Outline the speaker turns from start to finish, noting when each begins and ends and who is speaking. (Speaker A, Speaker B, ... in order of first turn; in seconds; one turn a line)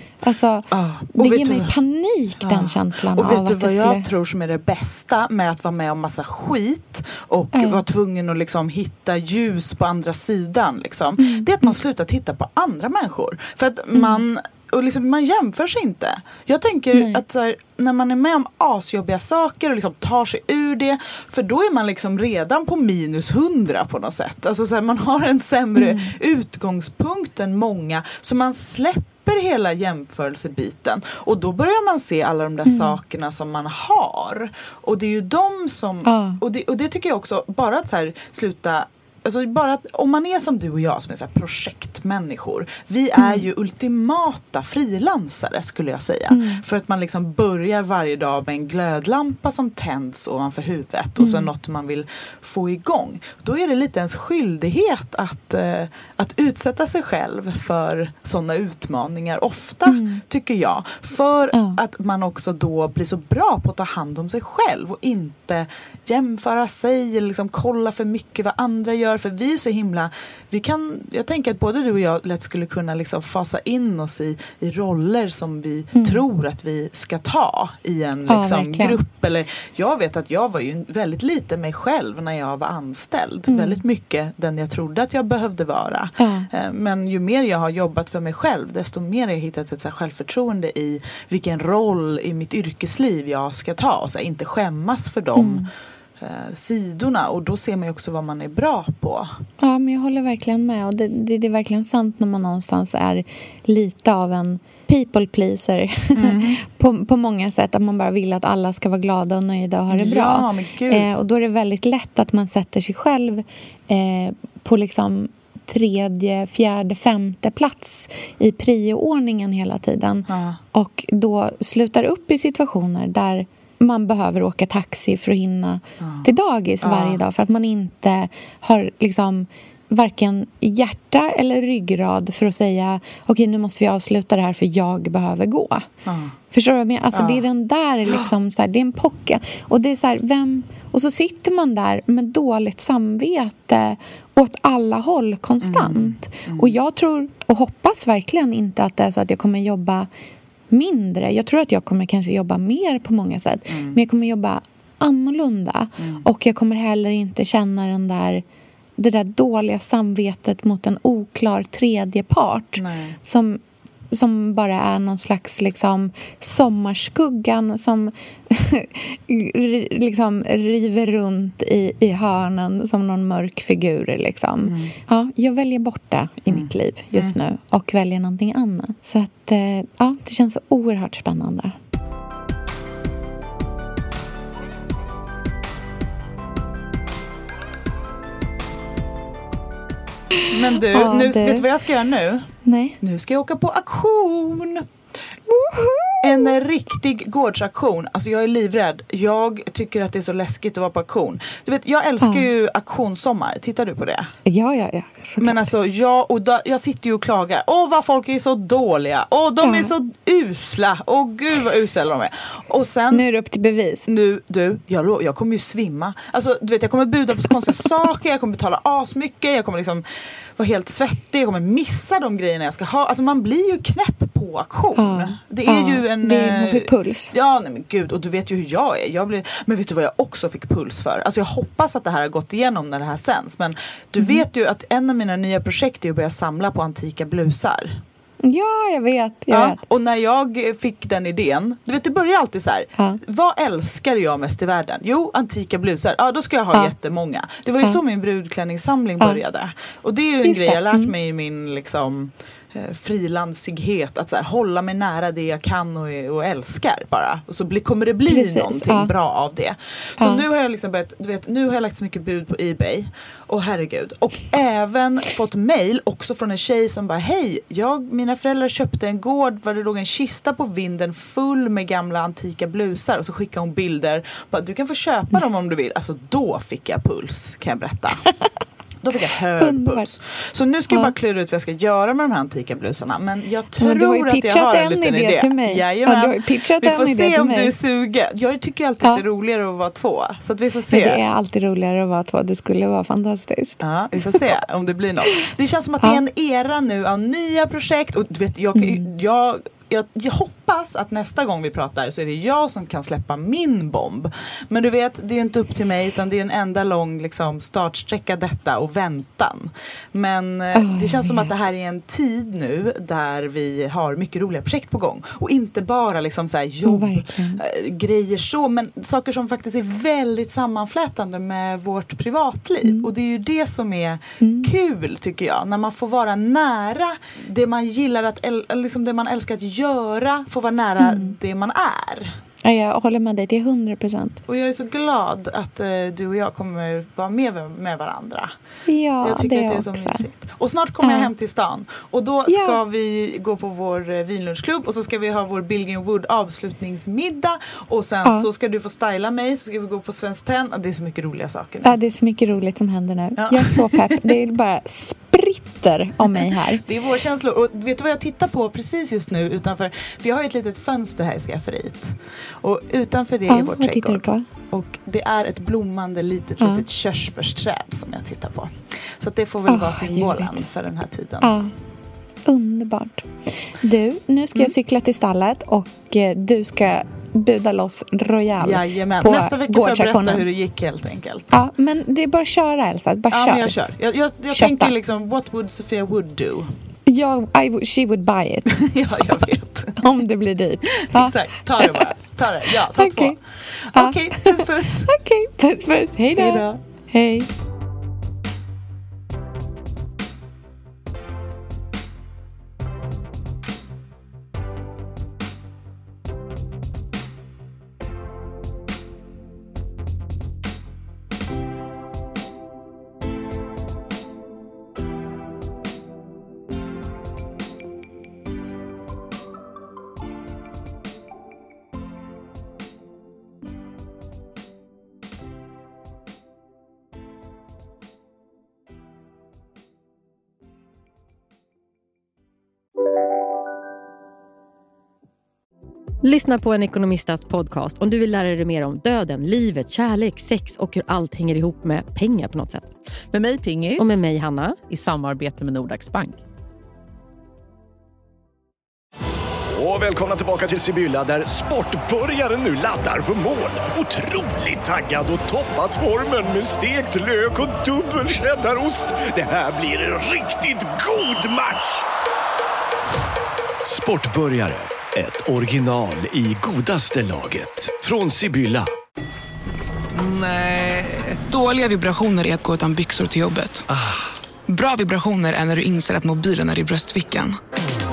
Speaker A: 0.2-4.1
Speaker B: 0.7-1.7
Speaker B: 2.4-95.6
Speaker A: 7.5-7.8
Speaker A: 11.2-11.7
Speaker A: 13.9-14.2
Speaker A: 16.9-17.2
Speaker A: 25.8-26.1
Speaker A: 32.6-33.0
Speaker A: 36.0-36.4
Speaker A: 43.2-43.5
Speaker A: 46.3-46.6
Speaker A: 51.2-51.5
Speaker A: 59.9-60.2
Speaker A: 61.5-61.8
Speaker A: 75.9-76.2
Speaker A: 78.3-79.0
Speaker A: 83.5-83.8
Speaker A: 86.2-86.5
Speaker A: 95.3-95.7
Speaker B: 96.2-99.3
Speaker A: 99.6-135.8
Speaker B: 106.2-106.6
Speaker B: 109.9-111.1
Speaker B: 120.3-120.6
Speaker B: 126.0-126.2
Speaker B: 126.8-127.2
Speaker B: 136.1-136.3
Speaker A: 136.5-150.1
Speaker B: 137.1-137.4
Speaker B: 145.6-146.7
Speaker A: 150.7-158.4
Speaker B: 153.7-153.9
Speaker A: 159.0-163.6
Speaker B: 162.7-163.2
Speaker A: 164.1-181.7
Speaker B: 174.7-174.9
Speaker B: 176.5-177.3
Speaker A: 190.4-191.7
Speaker B: 190.5-192.5
Speaker A: 192.6-193.0
Speaker B: 193.0-194.8
Speaker A: 195.5-196.5
Speaker B: 196.2-204.3
Speaker A: 204.4-205.7
Speaker B: 205.4-213.2
Speaker A: 209.6-209.9
Speaker A: 213.1-214.1
Speaker B: 214.1-220.0
Speaker B: 220.6-238.0
Speaker A: 224.9-227.3
Speaker A: 234.2-234.4
Speaker A: 238.4-239.8
Speaker B: 239.5-278.2
Speaker A: 250.4-251.1
Speaker A: 258.3-259.1
Speaker A: 260.2-260.4
Speaker B: 279.0-291.2
Speaker A: 279.6-280.1
Speaker A: 283.8-287.7
Speaker A: 290.9-294.4
Speaker B: 293.8-332.4
Speaker A: 298.7-299.1
Speaker A: 310.7-311.5
Speaker A: 316.8-317.6
Speaker A: 322.8-323.1
Speaker A: 324.4-324.7
Speaker A: 331.0-331.4
Speaker A: 332.6-334.4
Speaker B: 334.5-338.5
Speaker A: 338.9-340.2
Speaker B: 339.2-351.9
Speaker A: 341.0-341.3
Speaker A: 342.5-342.8
Speaker A: 351.8-356.8
Speaker B: 353.4-354.3
Speaker B: 356.2-371.6
Speaker A: 363.5-364.4
Speaker A: 369.7-370.6
Speaker A: 371.4-371.7
Speaker A: 372.4-380.4
Speaker B: 378.6-381.6
Speaker A: 381.5-383.8
Speaker B: 383.3-386.7
Speaker A: 384.5-384.9
Speaker A: 387.1-388.8
Speaker B: 388.7-390.0
Speaker A: 390.0-392.0
Speaker B: 391.1-395.1
Speaker A: 392.9-393.4
Speaker A: 393.9-397.5
Speaker B: 396.4-396.8
Speaker C: 436.2-442.9
Speaker D: 443.3-444.2
Speaker C: 443.9-444.8
Speaker D: 444.9-446.4
Speaker E: 449.7-462.0
Speaker E: 463.8-468.9
Speaker E: 470.1-471.1
Speaker F: 471.4-473.8
Speaker F: 474.7-477.6